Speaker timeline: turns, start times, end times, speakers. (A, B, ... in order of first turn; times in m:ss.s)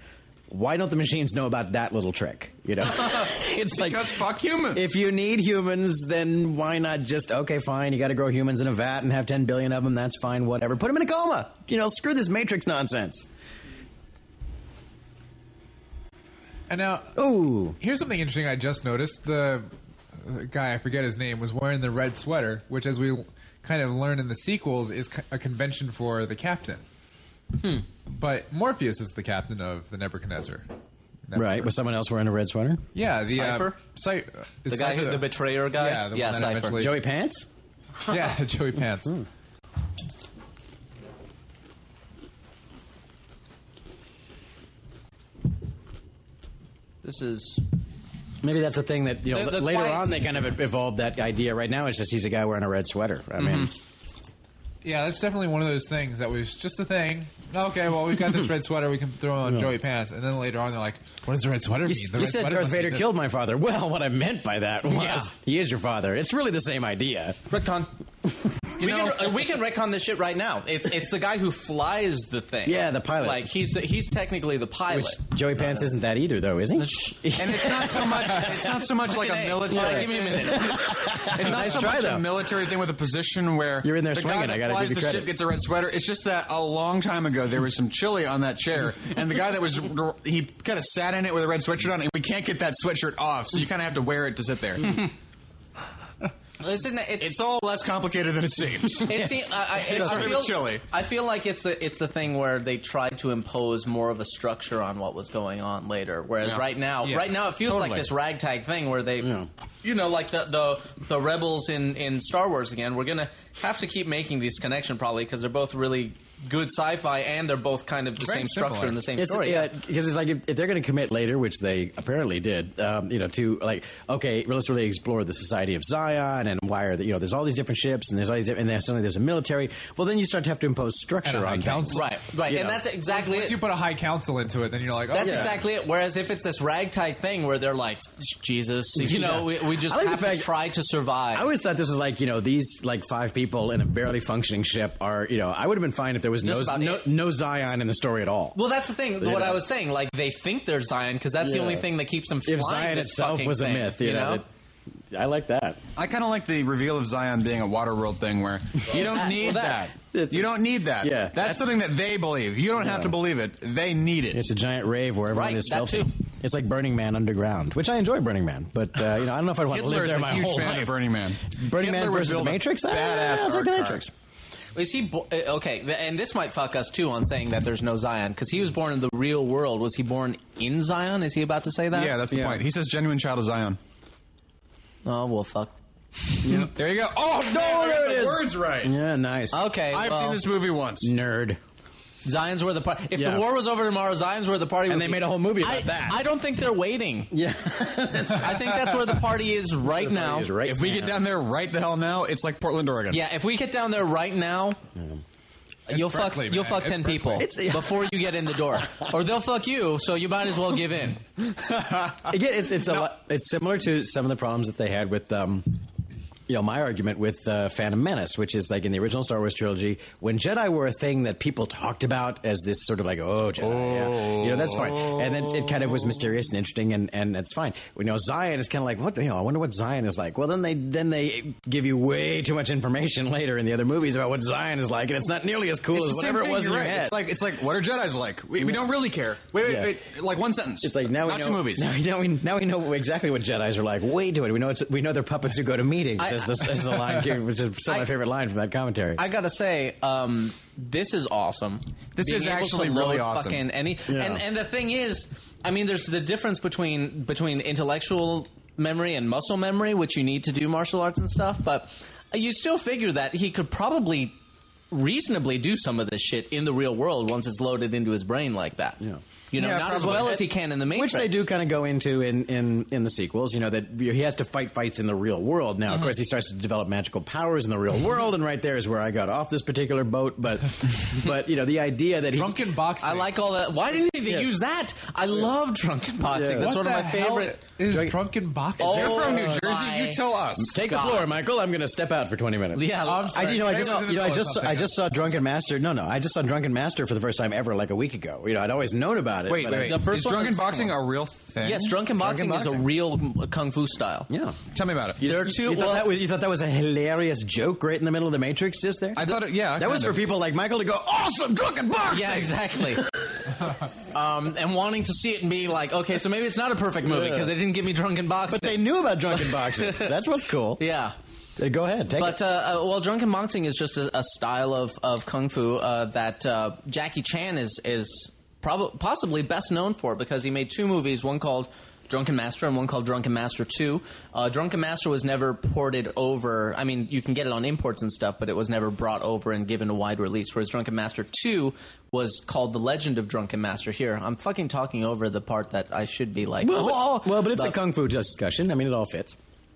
0:00.5-0:13.2 A
0:03.7-0:04.9 B
0:16.7-0:26.8 C
0:17.2-0:17.8 A
0:28.1-0:30.7 C
0:31.3-0:31.7 C
0:31.3-0:32.8 A
0:32.9-0:37.0 C
0:33.3-0:33.8 D
0:34.7-0:36.9 D
0:36.7-0:37.5 A
0:38.1-0:39.1 C
0:47.0-0:47.6 D
0:48.4-0:53.7 A
0:49.3-0:50.6 D
0:53.4-0:53.7 D
0:54.8-1:03.1 C
0:59.4-0:59.7 A
1:01.8-1:07.4 A
1:04.8-1:05.3 D
1:07.5-1:07.9 D
1:08.8-1:15.2 D
1:08.8-1:09.3 B
1:12.6-1:13.5 A
1:14.9-1:18.8 A
1:16.8-1:17.3 D
1:17.4-1:35.1 B
1:19.0-1:21.1 D
1:19.7-1:22.4 A
1:23.8-1:25.3 A
1:36.6-1:37.4 D
1:37.2-1:40.8 B
1:39.0-1:59.7 D
1:47.6-1:48.1 B
1:49.2-1:49.5 A
1:58.2-1:59.0 C
1:59.2-2:12.8 A
2:11.2-2:12.1 C
2:11.9-2:13.6 D
2:13.0-2:15.6 C
2:15.1-2:21.5 D
2:15.2-2:15.5 A
2:18.9-2:20.5 A
2:21.3-2:28.6 A
2:26.4-2:27.1 D
2:28.5-2:34.4 D
2:29.2-2:29.6 A
2:31.4-2:31.9 A
2:32.4-2:34.4 A
2:35.1-2:35.8 A
2:35.9-2:44.4 B
2:38.9-2:39.9 D
2:40.0-2:41.6 A
2:42.8-2:43.1 A
2:44.3-2:50.9 A
2:45.3-2:46.1 D
2:49.7-2:54.0 B
2:51.4-2:54.1 A
2:54.7-3:02.1 D
3:01.9-3:03.8 B
3:02.3-3:02.6 A
3:05.0-3:05.7 D
3:06.4-3:06.7 A
3:06.4-3:08.9 B
3:07.4-3:09.6 A
3:09.5-3:10.4 D
3:09.9-3:11.1 B
3:11.0-3:11.6 A
3:12.2-3:17.3 D
3:13.1-3:13.4 A
3:14.9-3:16.2 A
3:17.3-3:19.1 A
3:18.3-3:20.5 D
3:19.9-3:21.2 A
3:20.6-3:23.2 B
3:23.1-3:24.8 D
3:24.9-3:25.2 A
3:25.9-3:31.2 D
3:25.9-3:27.5 C
3:27.4-3:28.8 A
3:31.6-3:32.3 B
3:32.2-3:35.8 A
3:36.5-3:57.2 A
3:43.6-3:45.8 B
3:55.9-4:01.8 B
3:58.6-3:58.9 A
3:59.6-4:00.0 A
4:00.8-4:09.2 A
4:06.2-4:06.9 D
4:09.2-4:24.4 D
4:12.2-4:13.6 B
4:14.1-4:14.4 A
4:24.9-4:31.4 D
4:29.5-4:30.4 B
4:29.8-4:42.6 A
4:42.3-4:43.3 C
4:43.0-4:47.6 D
4:44.2-4:44.5 A
4:46.2-4:46.8 A
4:46.6-4:49.1 C
4:47.9-4:48.2 A
4:48.8-4:51.3 D
4:48.8-4:50.8 B
4:49.0-4:49.6 A
4:50.6-5:00.1 A
4:52.7-4:54.0 D
4:53.0-4:54.9 C
4:59.4-5:02.0 B
4:59.8-5:01.0 D
5:01.6-5:04.3 D
5:02.1-5:02.9 A
5:04.3-5:04.6 A
5:04.7-5:05.2 B
5:05.2-5:13.1 A
5:05.2-5:06.1 D
5:09.1-5:10.2 B
5:12.1-5:13.1 D
5:14.1-5:20.2 D
5:17.0-5:17.5 A
5:18.5-5:20.8 A
5:20.8-5:21.2 D
5:21.6-5:22.4 A
5:22.1-5:47.7 D
5:46.6-5:49.3 A